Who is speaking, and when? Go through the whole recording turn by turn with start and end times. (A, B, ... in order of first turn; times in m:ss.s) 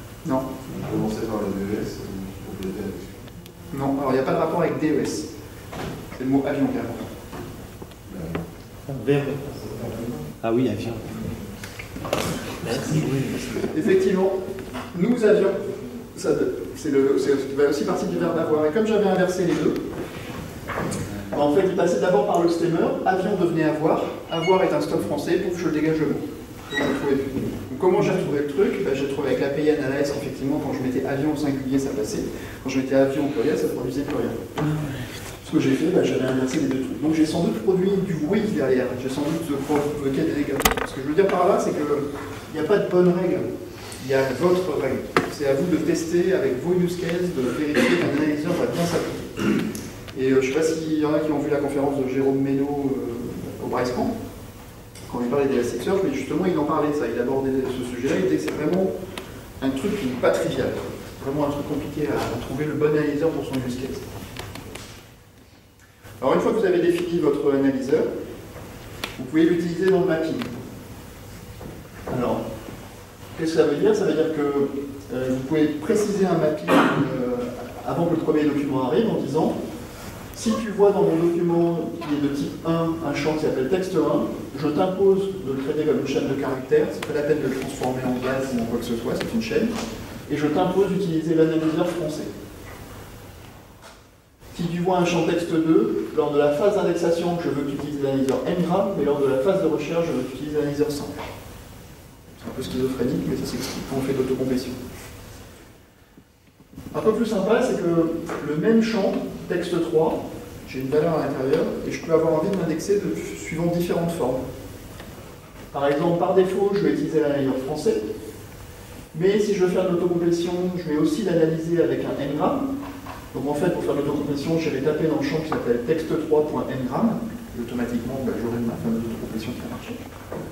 0:00.7-0:03.2 A
0:03.7-0:05.3 B
0:06.1-0:07.1 B
0:08.1-0:08.4 A
0:08.9-0:09.5 C
0:09.5-0:10.2 A
0:10.4-0:11.3 C
0:12.6-0:13.1 C
0:13.5-0:14.4 B
0:14.9-0:19.8 B
0:21.3-0:34.6 B
0:35.4-0:43.5 B
0:44.0-0:49.6 B
0:50.1-0:54.1 B
0:55.1-0:58.9 B
0:59.6-1:04.0 B
1:06.2-1:08.1 B
1:09.2-1:10.5 B
1:12.1-1:12.4 B
1:13.4-1:19.6 B
1:20.3-1:29.7 B
1:30.3-1:32.3 B
1:34.5-1:41.3 B
1:42.4-1:44.8 B
1:46.9-1:54.4 B
1:55.7-1:58.1 B
1:59.1-2:02.7 B
2:03.3-2:10.0 B